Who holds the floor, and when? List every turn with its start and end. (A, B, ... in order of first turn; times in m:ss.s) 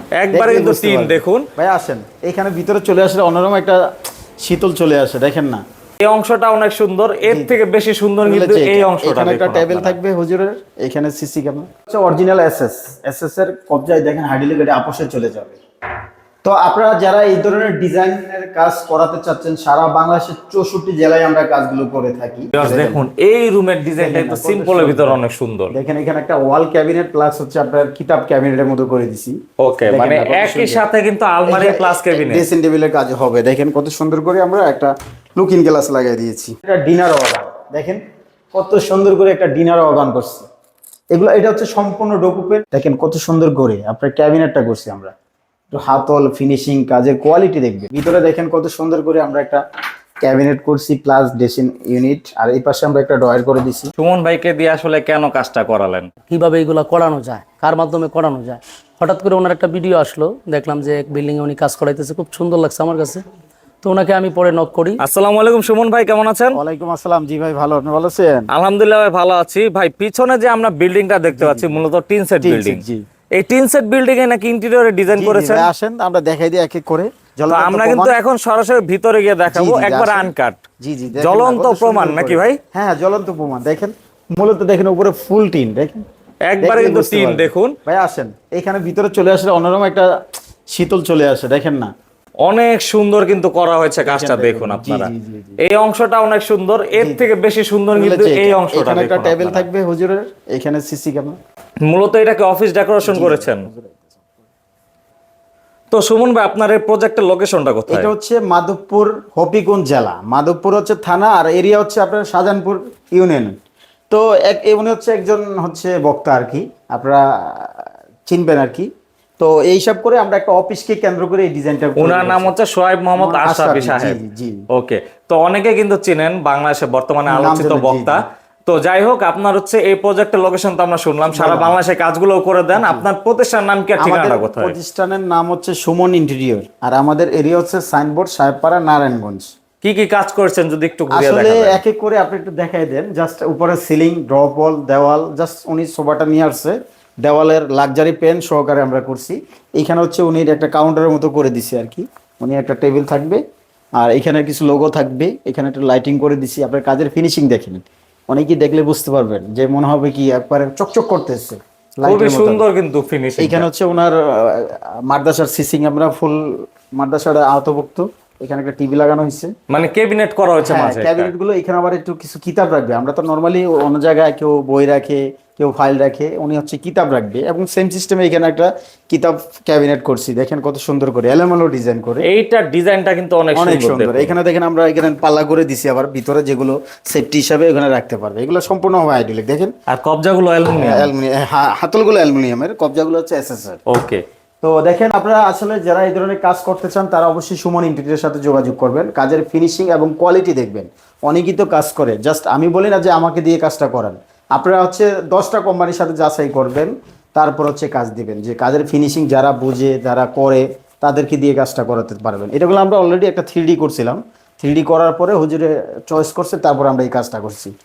0:00.2-0:01.5 A
0:00.3-0:03.8 B
0:04.4-0:05.6 B
0:06.0-0:10.0 A
0:07.2-0:07.5 B
0:08.2-0:15.6 B
0:16.4-0:23.0 B
0:22.5-0:25.7 A
0:24.0-0:30.8 B
0:29.6-0:32.5 A
0:31.5-0:38.0 B
0:38.5-0:40.4 B
0:41.1-0:45.1 B
0:45.7-0:49.6 B
0:50.2-0:53.9 B
0:54.0-0:56.1 A
0:56.3-1:03.2 C
1:03.8-1:05.0 C
1:05.0-1:06.6 A
1:06.5-1:08.5 B
1:08.5-1:12.8 A
1:11.3-1:11.8 B
1:12.4-1:13.0 B
1:13.4-1:15.7 A
1:15.1-1:18.1 B
1:17.5-1:20.6 A
1:19.5-1:26.0 B
1:21.2-1:22.6 A
1:26.5-1:27.7 A
1:26.6-1:30.1 B
1:30.7-1:31.9 B
1:32.4-1:39.7 A
1:34.0-1:35.6 B
1:36.9-1:37.3 B
1:37.9-1:41.4 B
1:41.8-1:43.6 A
1:43.0-1:44.2 B
1:45.9-1:48.1 A
1:47.9-1:53.6 B
1:54.1-2:02.5 B
2:02.0-2:04.2 A
2:03.2-2:04.6 B
2:04.7-2:14.7 A
2:07.3-2:08.2 B
2:11.3-2:11.8 B
2:12.7-2:13.0 B
2:14.0-2:19.5 B
2:19.8-2:21.8 A
2:21.1-2:33.4 B
2:34.0-2:42.6 B
2:42.0-2:43.6 A
2:43.4-2:49.5 B
2:49.7-2:51.3 A
2:50.6-3:02.2 B
3:02.2-3:04.3 A
3:03.5-3:09.7 B
3:09.9-3:11.1 A
3:10.8-3:13.8 B
3:13.9-3:14.2 A
3:14.6-3:37.7 B